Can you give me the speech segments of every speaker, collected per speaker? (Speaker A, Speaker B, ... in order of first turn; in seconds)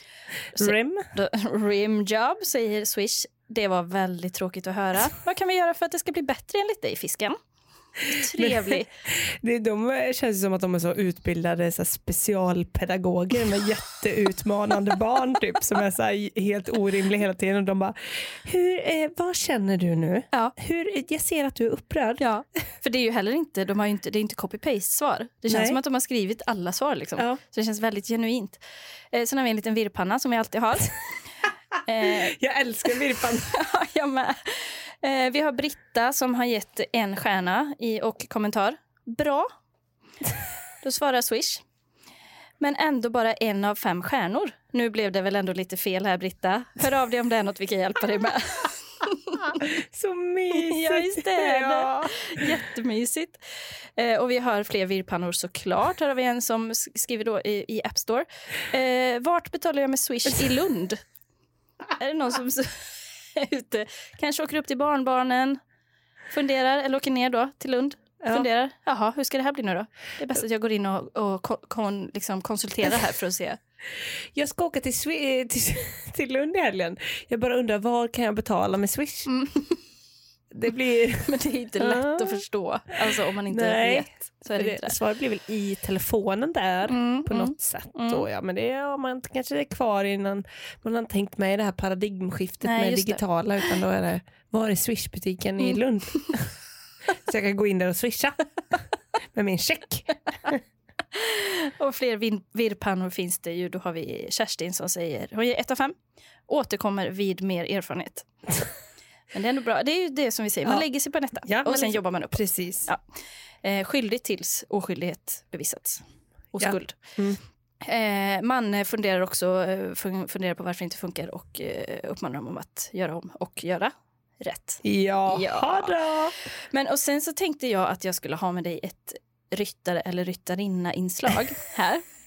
Speaker A: 0.6-7.4, 8.1-8.9, 22.2-28.6, 29.1-31.0, 31.9-32.4, 33.5-39.5, 40.8-41.6, 42.6-49.6, 50.5-53.4, 54.0-61.0, 62.0-65.6, 66.3-73.6, 79.3-79.8, 81.2-85.0, 86.9-88.2, 92.6-93.2, 101.1-106.0, 106.5-108.3, 109.3-113.0, 113.6-116.0, 116.5-117.0, 117.8-126.0, 126.7-132.0
Speaker B: 0.6-1.1, 8.3-22.2, 25.5-25.8, 32.0-33.5, 49.5-52.5, 68.2-68.5, 74.3-79.3, 80.5-82.4, 83.5-96.5, 97.2-98.4, 99.3-100.6, 111.5-112.9, 116.6-117.4, 124.8-126.3